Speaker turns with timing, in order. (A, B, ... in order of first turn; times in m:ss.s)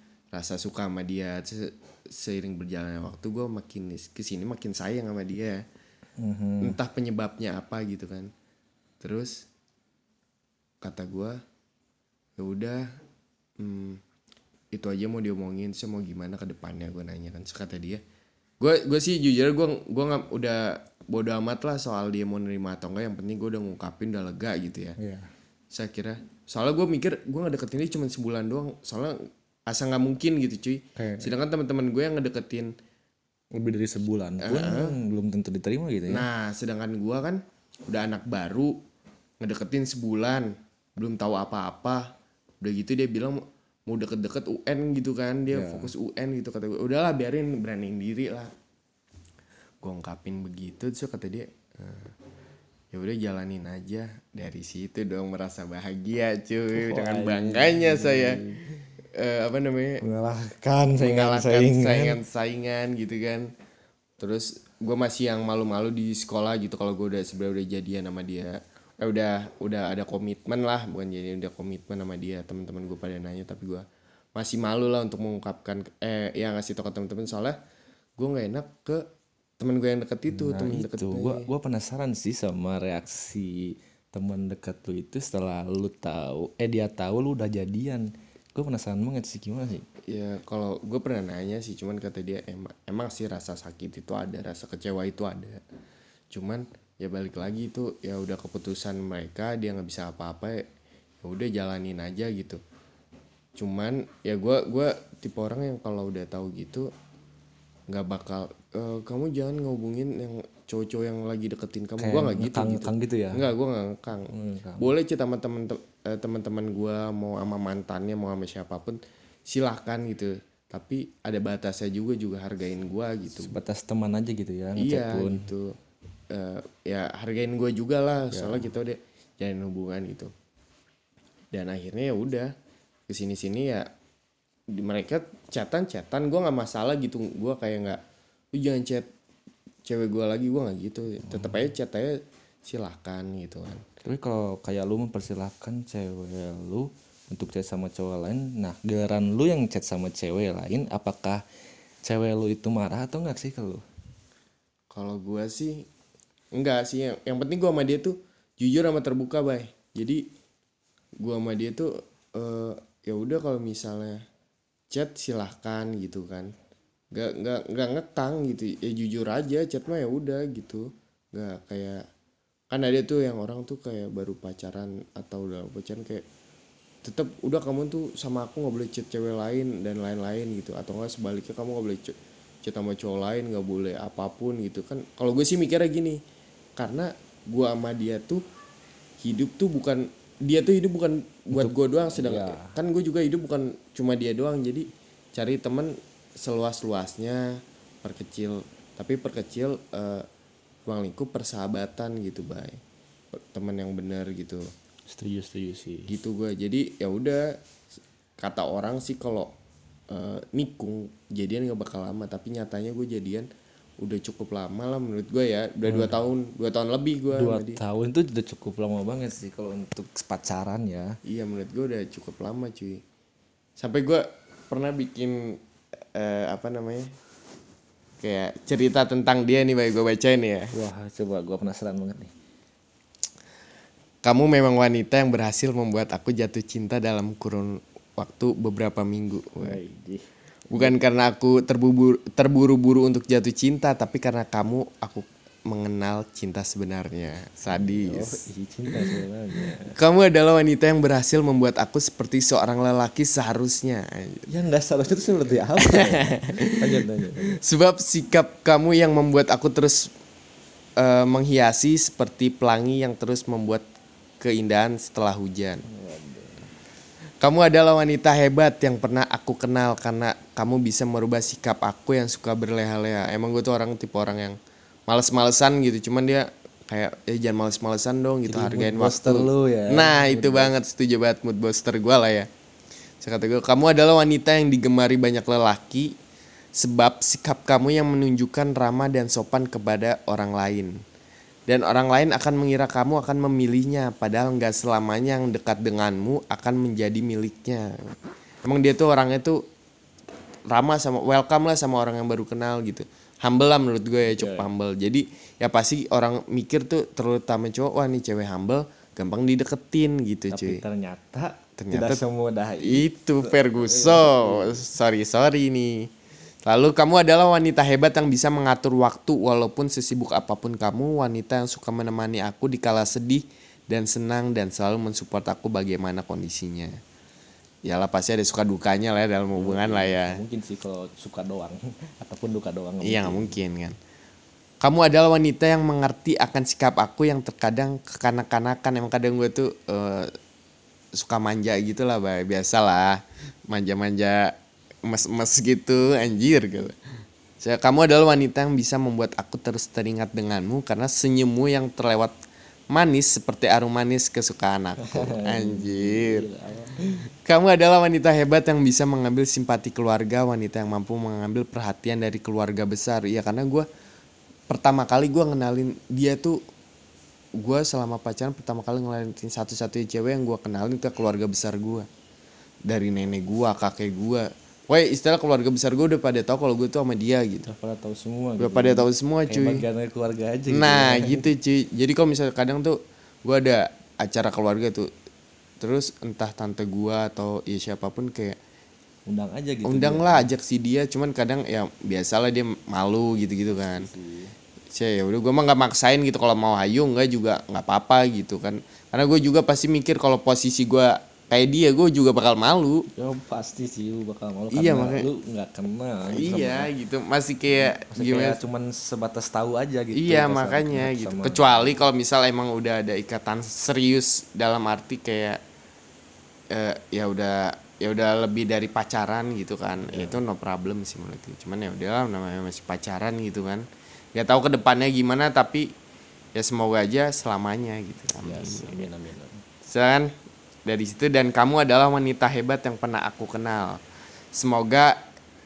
0:00.3-0:05.6 A
0:06.2-0:06.8 B
0:06.6-0:08.3 A
0:09.0-0:09.5 A
0:10.8-0:11.4 A
0:12.4-0:12.9 A
0:13.6-0:14.0 A
0:14.7-0:18.0 A
0:18.6-0:25.0 A
0:25.0-0:25.3 B
0:25.7-0:32.7 A
0:31.0-0:31.3 B
0:33.6-0:36.3 B
0:34.4-0:35.0 A
0:36.1-0:38.8 A
0:39.4-0:48.5 A
0:45.5-0:45.9 B
0:49.8-0:52.1 A
0:52.9-0:58.4 A
0:56.7-0:58.6 B
0:59.2-1:00.0 A
1:00.0-1:02.2 B
1:01.0-1:03.5 A
1:04.2-1:13.8 A
1:14.4-1:17.6 A
1:18.2-1:19.0 A
1:19.6-1:21.5 A
1:20.3-1:29.8 B
1:30.1-1:35.6 A
1:36.3-1:40.6 A
1:41.2-1:42.6 A
1:43.6-1:46.9 A
1:47.9-2:03.6 A
1:52.0-1:53.5 B
1:54.3-1:54.9 B
2:03.4-2:05.5 B
2:04.8-2:05.8 A
2:06.3-2:10.3 A
2:08.3-2:08.7 B
2:11.5-2:12.5 A
2:13.1-2:13.9 A
2:14.7-2:18.0 A
2:18.5-2:19.1 A
2:19.9-2:23.8 A
2:21.3-2:21.7 B
2:24.0-2:31.4 B
2:32.0-2:33.8 B
2:34.9-2:35.9 A
2:36.6-2:40.2 A
2:41.2-2:44.2 A
2:44.9-2:46.5 A
2:47.1-2:52.0 A
2:52.7-2:56.2 A
2:57.0-3:06.2 A
3:06.8-3:08.4 A
3:09.2-3:20.2 A
3:11.5-3:12.7 B
3:20.9-3:22.8 A
3:23.3-3:24.7 A
3:25.1-3:26.1 B
3:26.1-3:27.6 A
3:28.4-3:29.5 A
3:30.1-3:37.8 A
3:35.9-3:36.2 B
3:37.3-3:41.2 B
3:41.3-3:43.0 A
3:43.8-3:45.6 A
3:46.2-3:47.1 A
3:48.2-3:50.7 A
3:50.7-3:52.3 B
3:54.2-3:59.8 A
3:59.6-4:01.0 B
4:00.7-4:14.5 A
4:07.7-4:10.0 B
4:14.5-4:17.6 B
4:15.8-4:16.7 A
4:17.5-4:20.1 A
4:21.0-4:23.8 A
4:24.4-4:25.8 A
4:25.9-4:26.7 B
4:27.4-4:34.6 A
4:35.1-4:42.5 A
4:38.5-4:40.7 B
4:43.2-4:46.1 A
4:46.8-4:50.9 A
4:51.7-4:59.6 A
5:00.7-5:10.8 A
5:04.3-5:04.7 B
5:10.5-5:14.8 B
5:11.8-5:12.2 A
5:12.8-5:16.1 A
5:16.7-5:27.0 A
5:27.9-5:30.4 A
5:29.5-5:33.6 B
5:33.0-5:34.0 A
5:34.8-5:40.3 A
5:41.2-5:44.5 A
5:45.0-5:47.0 A
5:47.6-5:52.4 A
5:52.9-5:56.5 A
5:55.0-5:57.0 B
5:57.4-6:03.9 A
6:04.7-6:06.6 A
6:07.6-6:12.1 A
6:12.9-6:17.7 A
6:17.7-6:21.4 B
6:18.6-6:19.8 A
6:20.7-6:25.1 A
6:25.8-6:28.6 A
6:29.3-6:30.5 B
6:29.8-6:34.1 A
6:33.7-6:34.6 B
6:34.9-6:43.1 A
6:43.2-6:46.9 B
6:44.7-6:45.3 A
6:46.3-6:48.6 A
6:47.8-6:52.0 B
6:50.2-6:55.6 A
6:56.7-7:05.9 A
7:00.1-7:00.4 B
7:06.6-7:09.0 A
7:08.4-7:09.6 B
7:09.9-7:10.3 A
7:10.9-7:14.0 A
7:14.5-7:15.2 A